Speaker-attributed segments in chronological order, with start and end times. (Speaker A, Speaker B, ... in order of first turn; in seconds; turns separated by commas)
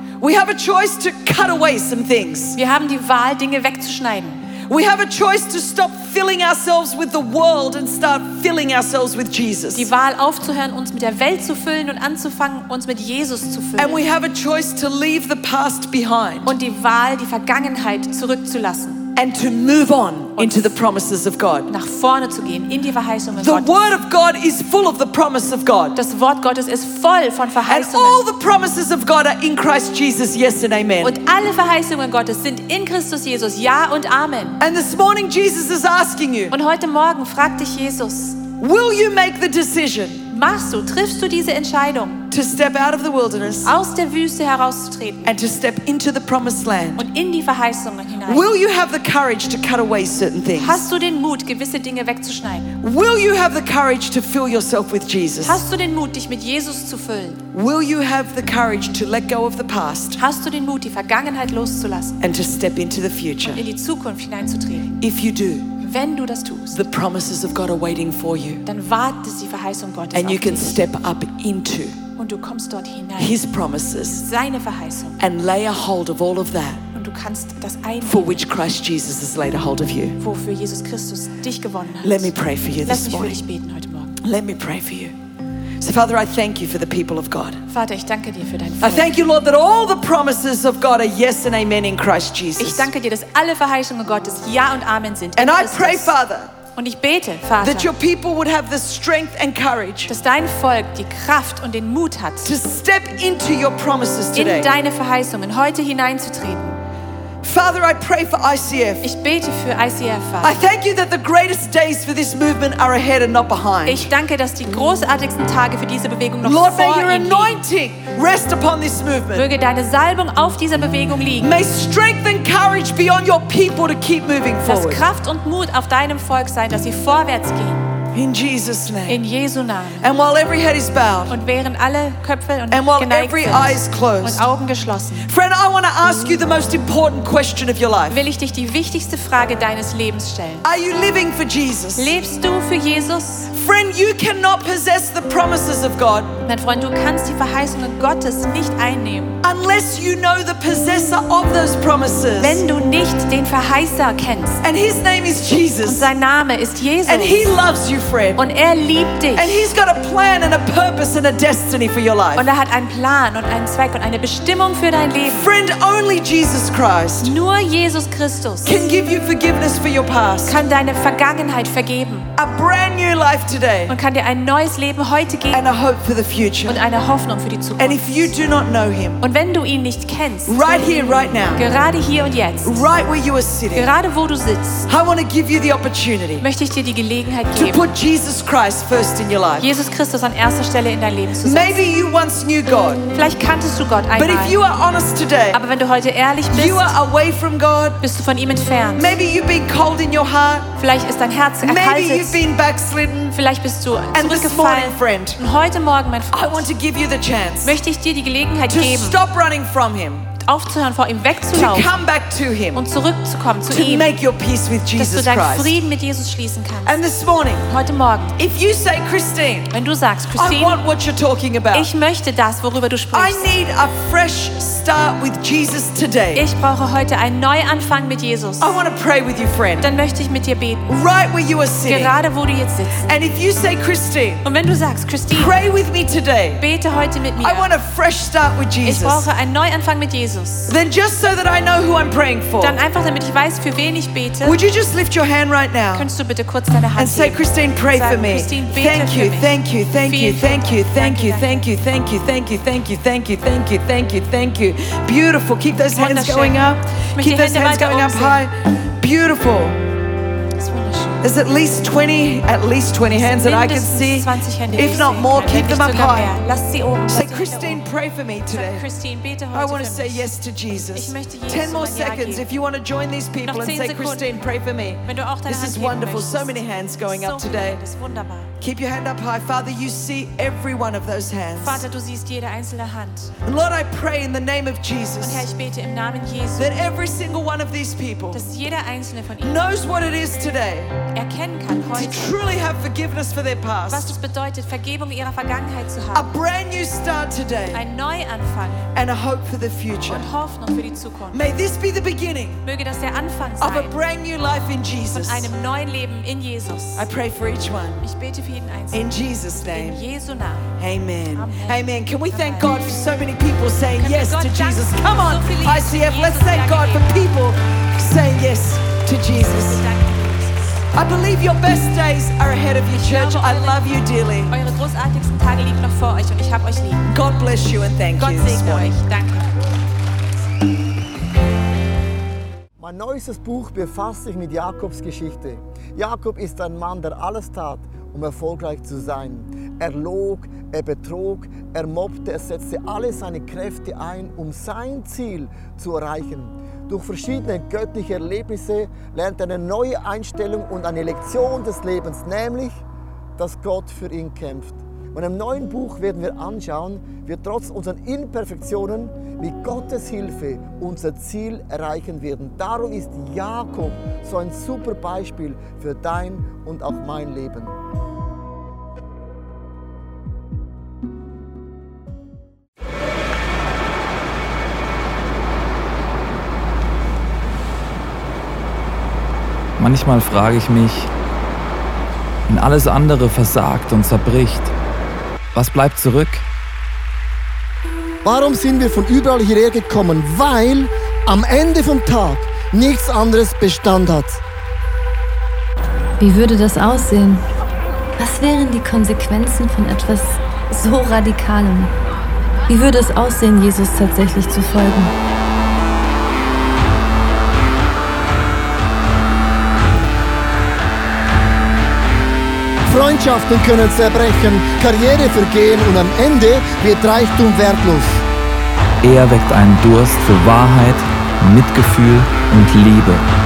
Speaker A: 0.2-2.6, Speaker B: 2.5-4.4, Speaker A: 4.7-9.9, Speaker B: 9.7-14.0, Speaker A: 13.8-16.5, Speaker B: 16.4-19.1, Speaker A: 19.1-21.7, Speaker B: 20.4-20.7, Speaker B: 21.7-23.7, Speaker A: 23.4-26.0, Speaker B: 25.9-28.2, Speaker A: 27.6-31.1, Speaker B: 31.0-34.6, Speaker A: 34.6-36.5, Speaker B: 36.5-38.5, Speaker A: 38.6-40.2, Speaker B: 40.3-42.2, Speaker A: 42.3-43.7, Speaker B: 43.6-45.3, Speaker A: 45.2-47.0, Speaker B: 47.0-48.5, Speaker A: 48.2-50.8, Speaker B: 50.5-52.7, Speaker A: 52.8-55.6, Speaker B: 55.4-57.4, Speaker A: 57.5-60.2, Speaker B: 60.2-62.2, Speaker A: 62.2-63.6, Speaker B: 63.5-65.0, Speaker A: 65.0-65.7, Speaker B: 65.8-66.8, Speaker A: 66.7-68.6, Speaker B: 68.7-70.8, Speaker A: 70.1-72.0, Speaker B: 72.2-73.4, Speaker A: 73.2-74.3, Speaker B: 74.1-75.2, Speaker A: 75.2-76.8, Speaker B: 76.9-78.4, Speaker A: 78.0-80.2, Speaker B: 80.2-84.2, Speaker A: 82.0-83.4, Speaker A: 84.2-85.1, Speaker A: 85.8-87.6, Speaker B: 87.7-89.1, Speaker A: 88.8-92.9, Speaker B: 92.6-96.1, Speaker A: 95.3-96.5, Speaker B: 96.7-97.9, Speaker A: 97.6-100.1, Speaker B: 100.1-102.5, Speaker A: 102.4-104.7, Speaker B: 104.3-106.8, Speaker A: 107.4-109.0, Speaker B: 109.0-110.6, Speaker A: 110.4-114.1, Speaker B: 113.8-117.6, Speaker A: 116.4-119.5, Speaker B: 119.3-121.5, Speaker A: 121.4-125.0, Speaker B: 124.6-128.0, Speaker A: 128.1-129.2, Speaker B: 129.1-130.1, Speaker A: 130.0-131.3, Speaker B: 131.3-135.3, Speaker A: 132.7-134.4, Speaker A: 135.2-138.2, Speaker B: 138.1-140.7, Speaker A: 140.6-142.1, Speaker B: 141.9-143.5, Speaker A: 143.5-146.3, Speaker B: 146.4-149.4, Speaker A: 149.4-152.6, Speaker B: 152.4-154.6, Speaker A: 154.6-156.1, Speaker B: 155.8-157.5, Speaker A: 157.0-158.4, Speaker B: 158.3-159.7, Speaker A: 159.3-162.5, Speaker B: 162.3-165.5, Speaker A: 165.2-167.3, Speaker B: 167.2-168.9, Speaker A: 168.6-170.6, Speaker B: 170.4-172.3, Speaker A: 172.3-173.9, Speaker B: 173.9-175.6, Speaker A: 175.5-176.8, Speaker B: 176.7-178.3, Speaker A: 177.8-179.2, Speaker B: 179.2-182.9, Speaker A: 180.5-181.7, Speaker A: 182.6-183.9, Speaker B: 183.7-184.9, Speaker A: 184.9-186.4, Speaker B: 186.4-187.8, Speaker A: 187.5-189.7, Speaker B: 189.6-191.8, Speaker A: 191.4-193.1, Speaker B: 193.1-194.6, Speaker A: 194.1-195.6, Speaker B: 195.5-196.9, Speaker A: 196.5-198.0, Speaker B: 198.0-199.2, Speaker A: 198.9-200.7, Speaker B: 200.8-202.4, Speaker A: 201.6-203.3, Speaker B: 203.3-206.7, Speaker A: 204.1-205.4, Speaker A: 206.3-207.8, Speaker B: 207.6-209.2, Speaker A: 208.7-210.3, Speaker B: 210.4-211.9, Speaker A: 211.5-212.9, Speaker B: 212.7-214.2, Speaker A: 213.7-215.7, Speaker B: 214.9-217.0, Speaker A: 216.8-217.7, Speaker B: 217.7-218.3, Speaker A: 218.4-219.7, Speaker B: 219.7-220.8, Speaker A: 220.3-221.9, Speaker B: 221.7-223.5, Speaker A: 223.1-226.5, Speaker B: 226.3-228.7, Speaker A: 228.6-229.9, Speaker B: 229.8-230.9, Speaker A: 230.9-232.2, Speaker B: 231.9-233.1, Speaker A: 233.0-234.4, Speaker B: 234.4-235.5, Speaker A: 235.3-236.6, Speaker B: 236.6-237.7, Speaker A: 237.4-239.3, Speaker B: 238.8-240.7, Speaker A: 240.7-242.8, Speaker B: 242.6-244.6, Speaker A: 244.4-246.1, Speaker B: 245.9-251.7, Speaker A: 246.9-259.8, Speaker B: 255.9-256.6, Speaker B: 257.1-258.4, Speaker B: 260.6-261.2, Speaker A: 261.2-266.4, Speaker B: 263.0-267.8, Speaker A: 267.0-268.9, Speaker B: 268.5-272.4, Speaker A: 269.5-277.8, Speaker B: 273.4-274.4, Speaker B: 275.0-278.5, Speaker A: 278.6-281.8, Speaker B: 281.6-283.3, Speaker A: 283.4-285.5, Speaker B: 285.2-286.7, Speaker A: 286.6-288.4, Speaker B: 288.3-289.6, Speaker A: 289.4-290.9, Speaker B: 291.1-292.3, Speaker A: 291.9-294.1, Speaker B: 293.9-296.3, Speaker A: 296.1-297.8, Speaker B: 297.7-298.9, Speaker A: 298.9-300.3, Speaker B: 300.1-301.5, Speaker A: 301.3-302.6, Speaker B: 302.6-303.9, Speaker A: 303.6-305.5, Speaker B: 305.1-307.1, Speaker A: 306.9-308.0, Speaker B: 308.0-310.7, Speaker A: 308.9-310.0, Speaker A: 310.8-319.8, Speaker B: 311.3-312.8, Speaker B: 314.0-317.3, Speaker B: 319.5-320.9, Speaker A: 320.9-324.6, Speaker B: 322.9-323.9, Speaker B: 324.5-327.0, Speaker A: 327.1-328.9, Speaker B: 328.2-329.5, Speaker C: 332.8-352.8, Speaker C: 353.4-367.8, Speaker D: 379.8-381.1, Speaker D: 382.5-384.7, Speaker D: 385.5-386.4, Speaker C: 388.2-394.4, Speaker E: 396.2-397.4, Speaker E: 398.2-401.9, Speaker E: 402.7-405.1, Speaker C: 412.9-418.2, Speaker D: 419.0-423.3